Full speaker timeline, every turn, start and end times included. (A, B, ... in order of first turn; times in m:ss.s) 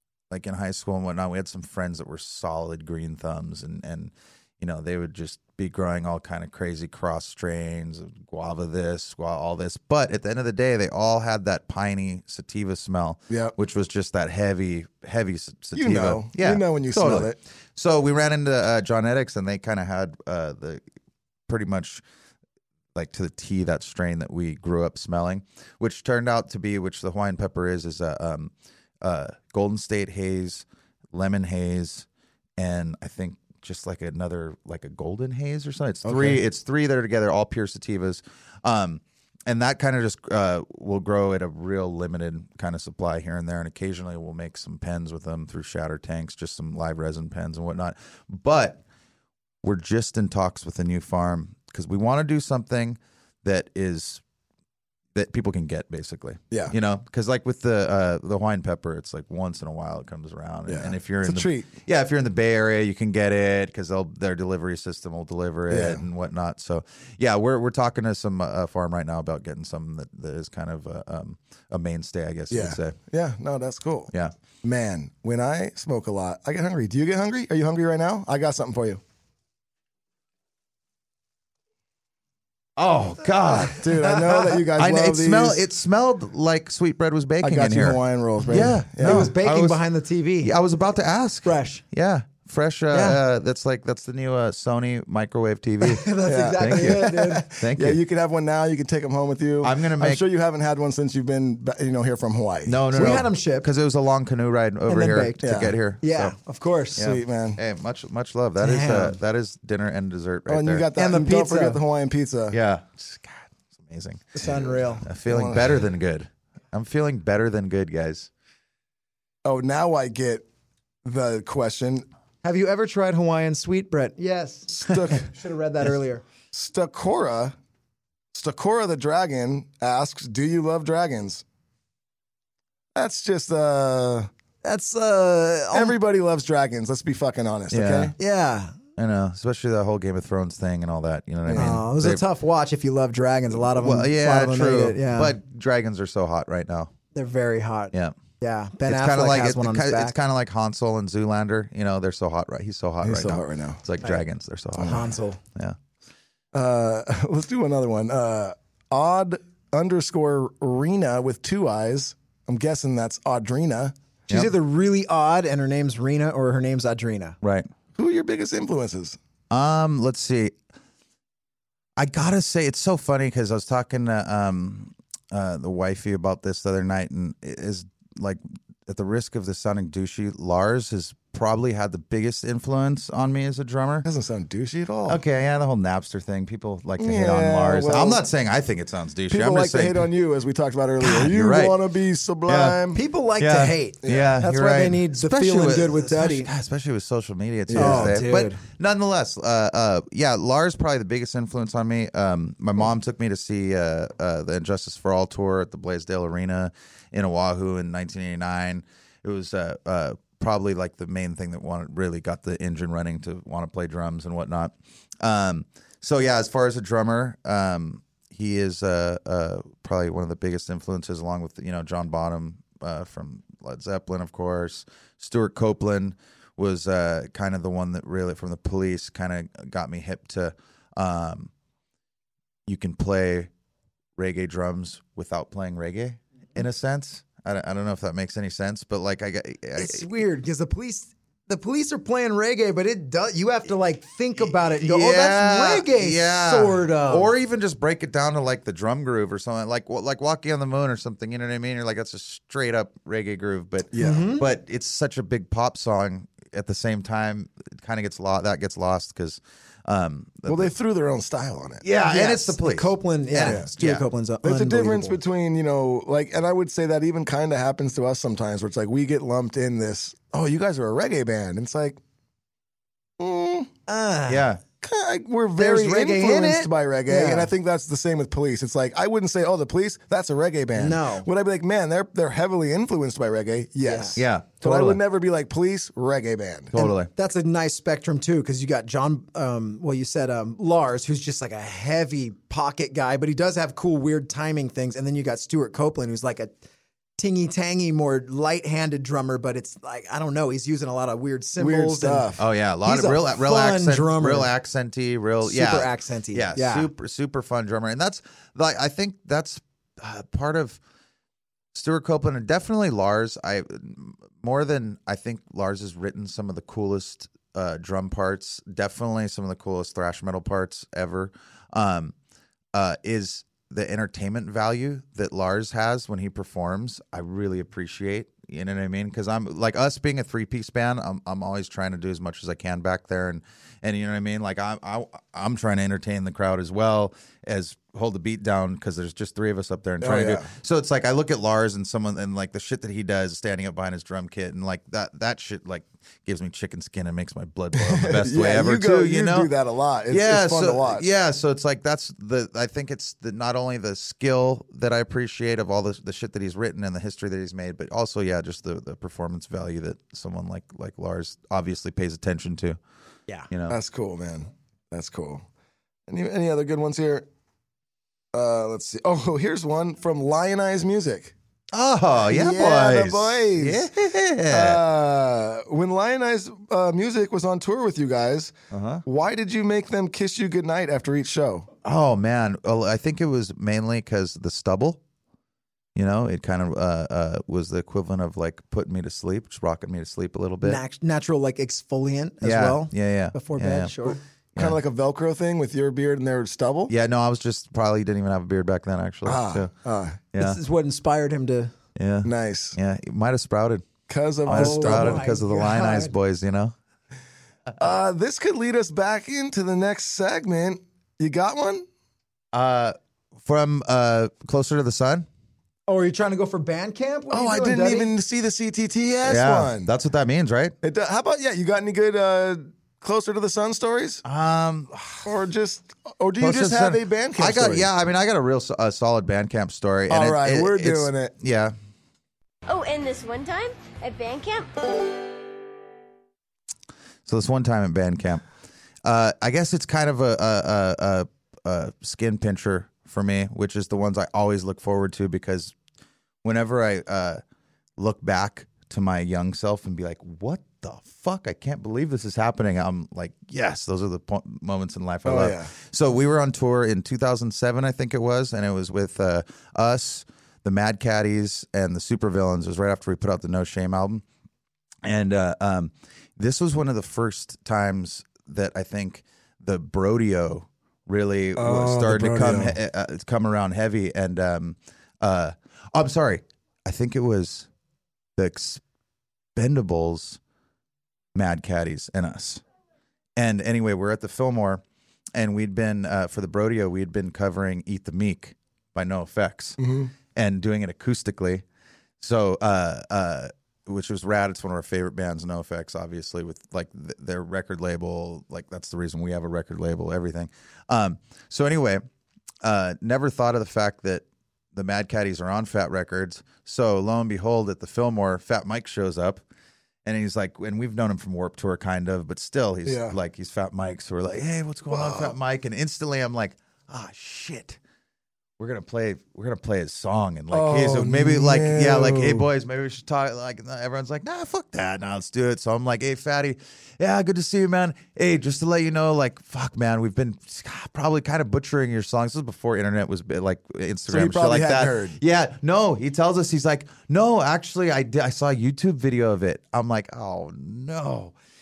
0:00.3-0:20.8 A
0:13.3-0:13.6 B
0:15.8-0:17.4 B
0:21.5-0:22.0 A
0:23.0-0:32.1 A
0:32.6-0:48.8 A
0:36.0-0:36.4 B
0:49.6-0:54.2 A
0:55.1-1:13.0 A
1:00.7-1:01.7 B
1:05.7-1:06.0 B
1:12.5-1:14.1 B
1:14.6-1:19.0 B
1:22.8-1:24.0 A
1:23.7-1:25.6 B
1:24.8-1:29.8 A
1:27.4-1:29.3 B
1:29.0-1:30.5 C
1:30.4-1:38.0 A
1:31.4-1:31.8 C
1:32.9-1:33.2 C
1:35.8-1:37.5 C
1:36.3-1:43.2 B
1:39.6-1:40.2 A
1:42.7-1:46.3 A
1:42.9-1:43.7 C
1:44.9-1:47.0 C
1:45.4-1:45.8 B
1:47.0-1:47.6 B
1:47.0-1:50.9 A
1:48.6-1:49.2 C
1:50.5-1:52.6 B
1:51.0-1:51.8 C
1:52.5-1:54.4 A
1:54.4-1:55.0 C
1:55.0-1:58.3 A
1:55.3-1:55.8 B
1:59.4-2:00.4 B
2:01.0-2:02.1 B
2:02.4-2:06.2 C
2:04.7-2:05.3 B
2:06.5-2:07.6 B
2:08.3-2:11.4 B
2:13.0-2:14.3 B
2:14.6-2:16.0 C
2:15.7-2:18.1 B
2:17.7-2:18.2 A
2:18.2-2:18.8 C
2:19.0-2:22.2 A
2:21.5-2:21.8 B
2:21.5-2:25.4 C
2:23.6-2:26.9 A
2:27.2-2:30.2 C
2:28.9-2:35.8 A
2:33.0-2:33.8 B
2:34.8-2:35.4 C
2:36.5-2:44.0 B
2:44.3-2:47.4 C
2:47.4-2:47.7 A
2:48.0-2:49.2 B
2:49.5-2:50.5 A
2:52.0-3:04.1 A
3:04.0-3:05.2 B
3:05.1-3:10.1 A
3:07.0-3:08.2 B
3:09.3-3:13.0 B
3:11.0-3:11.8 A
3:12.5-3:12.8 A
3:12.9-3:16.5 C
3:13.4-3:51.5 A
3:14.0-3:14.4 B
3:17.7-3:18.2 B
3:17.8-3:18.6 C
3:52.7-3:53.5 A
3:54.2-4:00.0 A
3:59.8-4:07.3 C
4:04.7-4:20.7 A
4:13.9-4:14.3 B
4:14.0-4:14.4 C
4:20.5-4:21.8 B
4:21.8-4:24.0 A
4:22.0-4:25.2 C
4:23.4-4:23.7 B
4:24.4-4:32.0 B
4:33.2-4:33.7 B
4:33.9-4:34.5 C
4:34.3-4:34.6 A
4:34.8-4:46.8 B
4:35.6-4:37.5 C
4:36.2-4:36.6 A
4:40.8-4:41.3 C
4:43.8-4:44.2 C
4:44.2-4:45.0 A
4:46.7-4:47.1 A
4:46.8-4:56.5 C
4:57.2-5:02.3 C
5:01.6-5:02.4 B
5:02.4-5:10.8 A
5:02.8-5:04.5 C
5:05.4-5:06.9 C
5:11.7-5:22.1 A
5:22.7-5:49.5 A
5:40.0-5:40.5 B
5:47.7-5:51.1 B
5:50.1-6:02.8 A
6:03.5-6:03.8 A
6:03.7-6:05.4 B
6:06.1-6:07.3 B
6:08.3-6:11.3 B
6:11.7-6:14.8 A
6:12.3-6:13.9 B
6:14.5-6:18.5 B
6:18.7-6:19.0 A
6:19.1-6:21.7 B
6:21.8-6:25.0 A
6:26.0-6:30.8 A
6:30.6-6:34.2 C
6:32.4-6:33.9 A
6:34.6-6:36.9 B
6:36.9-6:39.7 A
6:39.2-6:40.2 B
6:40.3-6:40.6 A
6:40.4-6:41.7 C
6:42.0-6:43.9 A
6:42.2-6:42.8 B
6:44.1-6:45.3 B
6:44.5-6:46.7 A
6:44.5-6:46.1 C
6:47.8-6:51.9 B
6:52.5-6:55.3 A
6:55.9-6:58.1 C
6:57.3-6:59.9 B
6:59.2-7:00.7 A
7:00.8-7:04.2 B
7:04.2-7:05.3 A
7:05.2-7:07.9 B
7:06.4-7:11.7 A
7:10.1-7:11.3 B
7:12.7-7:14.9 D
7:17.3-7:18.4 A
7:19.0-7:25.8 A
7:26.4-7:27.4 A
7:28.0-7:44.2 A
7:35.2-7:35.7 B
7:45.0-7:57.7 A
7:51.6-7:52.8 B
7:58.4-7:58.8 A
7:59.6-8:00.4 A
8:01.4-8:02.6 A
8:03.4-8:04.8 A
8:05.4-8:09.8 A
8:09.8-8:10.1 B
8:10.4-8:11.6 A
8:12.2-8:22.0 A
8:22.6-8:29.4 A
8:30.0-8:37.8 A
8:32.9-8:33.2 B
8:34.9-8:35.4 B
8:38.6-9:01.3 A
8:40.5-8:42.5 B
8:54.1-8:55.2 B